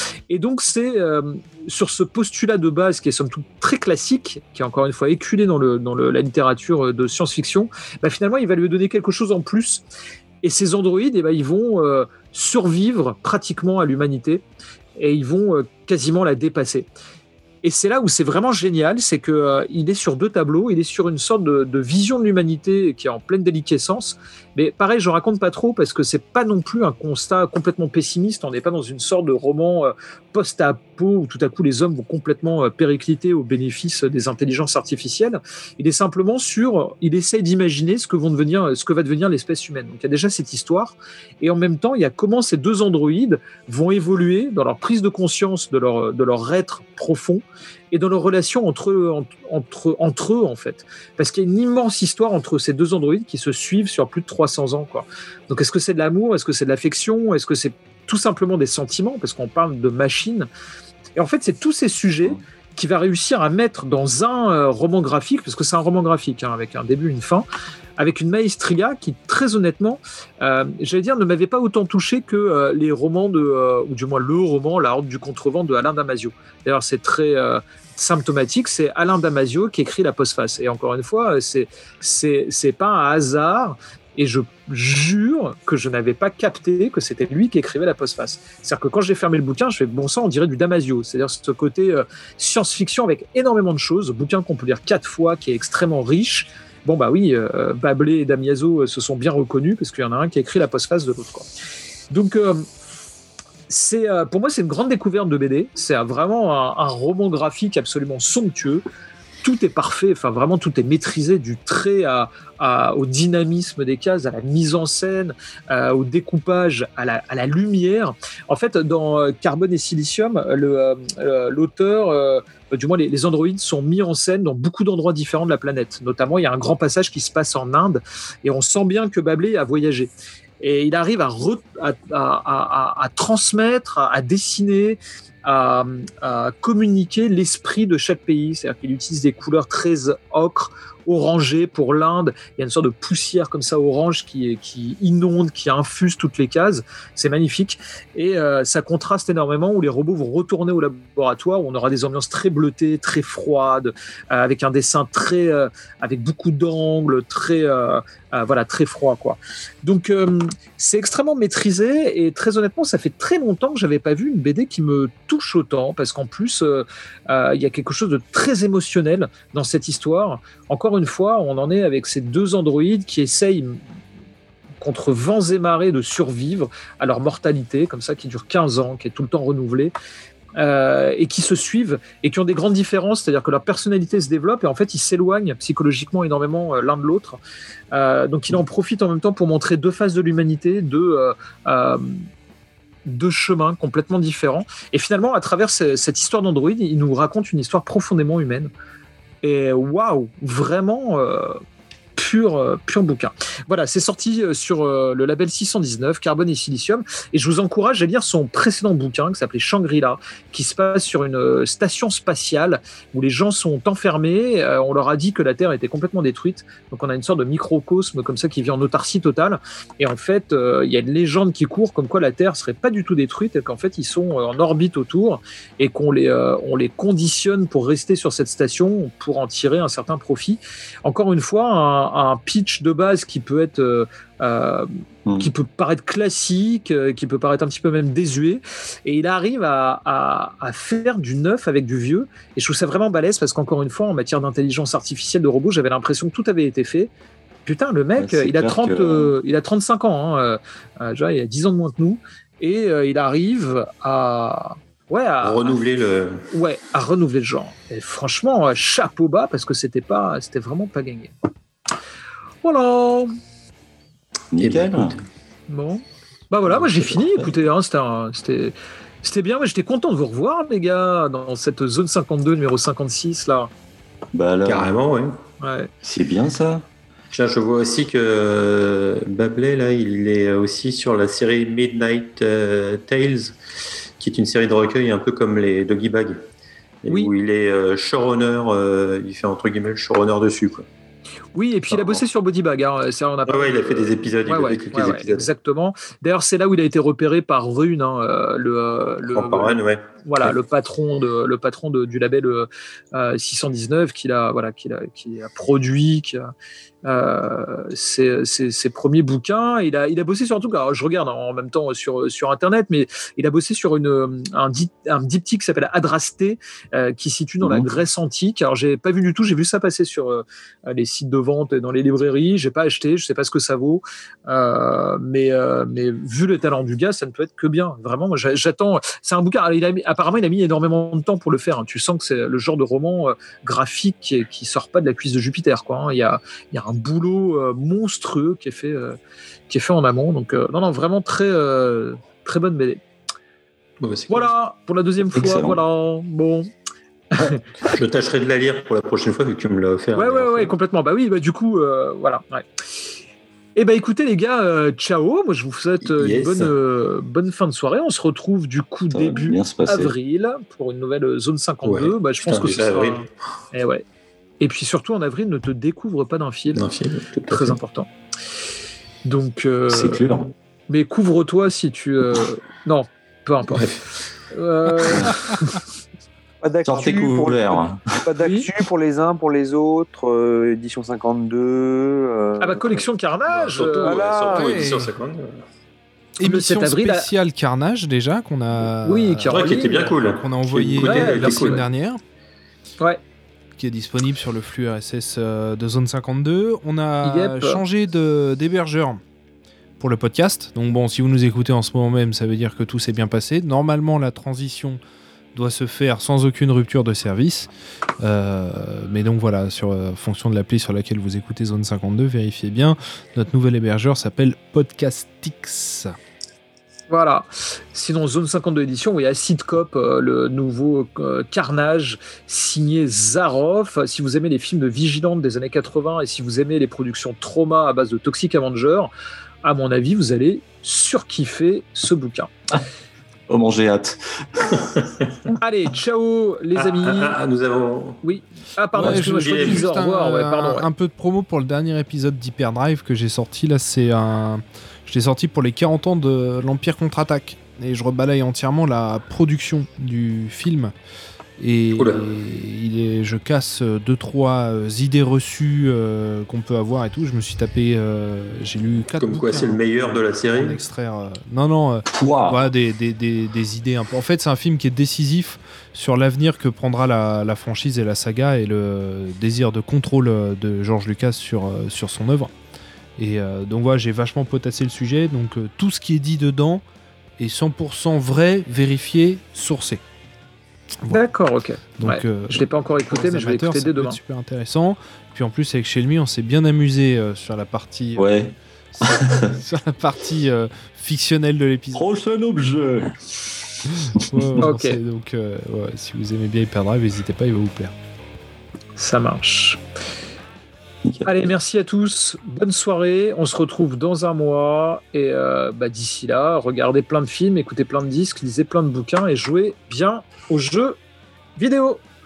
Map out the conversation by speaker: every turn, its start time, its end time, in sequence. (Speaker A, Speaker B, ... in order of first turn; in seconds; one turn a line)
Speaker A: 0.3-9.8
Speaker A: 10.4-14.4
Speaker A: 15.0-16.9
Speaker A: 17.6-60.5
Speaker A: 61.2-67.5
Speaker A: 68.0-101.5
Speaker A: 102.1-102.7
Speaker A: 103.7-108.8
Speaker A: 109.4-173.8
Speaker A: 174.8-179.9
Speaker A: 180.6-187.4
Speaker A: 187.9-192.3
Speaker A: 193.1-198.7
Speaker A: 199.4-201.6
Speaker A: 202.2-247.1
Speaker A: 247.7-255.8
Speaker B: 248.2-249.3
Speaker C: 255.4-256.4
Speaker A: 256.5-261.3
Speaker A: 262.6-263.3
Speaker B: 264.5-265.2
Speaker C: 264.6-265.2
Speaker A: 265.7-273.7
Speaker B: 266.7-267.5
Speaker B: 274.3-274.9
Speaker C: 274.6-275.4
Speaker A: 275.6-275.9
Speaker B: 276.0-276.8
Speaker C: 277.3-283.6
Speaker C: 284.2-286.4
Speaker C: 287.0-290.8
Speaker A: 291.6-306.5
Speaker C: 291.9-292.2
Speaker C: 293.5-295.5
Speaker C: 299.3-300.6
Speaker A: 307.0-339.2
Speaker B: 317.6-317.9
Speaker A: 339.7-343.0
Speaker C: 344.0-344.5
Speaker A: 344.3-346.7
Speaker B: 345.3-345.8
Speaker A: 347.3-347.6
Speaker C: 347.8-350.7
Speaker A: 350.1-352.7
Speaker A: 353.8-364.0
Speaker C: 356.2-356.6
Speaker B: 356.4-356.7
Speaker B: 359.1-360.1
Speaker C: 361.8-363.3
Speaker A: 364.6-366.9
Speaker C: 366.7-367.8
Speaker A: 367.5-368.1
Speaker A: 369.2-370.3
Speaker B: 369.9-370.5
Speaker A: 370.9-373.9
Speaker C: 373.7-374.0
Speaker A: 374.5-375.8
Speaker D: 376.6-383.1
Speaker B: 376.9-378.2
Speaker A: 378.4-378.7
Speaker A: 382.6-384.6
Speaker C: 383.5-385.6
Speaker D: 384.0-384.9
Speaker E: 384.6-385.1
Speaker E: 386.4-392.2
Speaker A: 386.4-387.3
Speaker A: 389.0-390.2
Speaker C: 389.5-391.9
Speaker A: 391.0-391.8
Speaker E: 393.8-399.2
Speaker A: 397.2-397.8
Speaker E: 400.0-405.0
Speaker E: 405.6-416.1
Speaker A: 417.1-429.1
Speaker A: 429.6-432.5
Speaker B: 433.5-434.9
Speaker C: 434.9-435.5
Speaker A: 435.6-437.4
Speaker C: 436.8-438.2
Speaker A: 438.2-440.9
Speaker C: 439.0-439.9
Speaker E: 439.0-450.9
Speaker E: 451.6-472.5
Speaker C: 452.0-452.2
Speaker C: 459.2-460.8
Speaker B: 462.1-462.7
Speaker E: 473.2-476.8
Speaker E: 477.4-480.0
Speaker A: 481.1-484.2
Speaker E: 482.0-488.4
Speaker B: 488.2-489.5
Speaker E: 489.0-492.1
Speaker B: 491.9-493.1
Speaker B: 494.1-494.6
Speaker E: 494.3-497.9
Speaker A: 494.6-495.0
Speaker A: 499.0-499.8
Speaker B: 501.1-501.5
Speaker A: 501.2-511.0
Speaker A: 511.6-512.0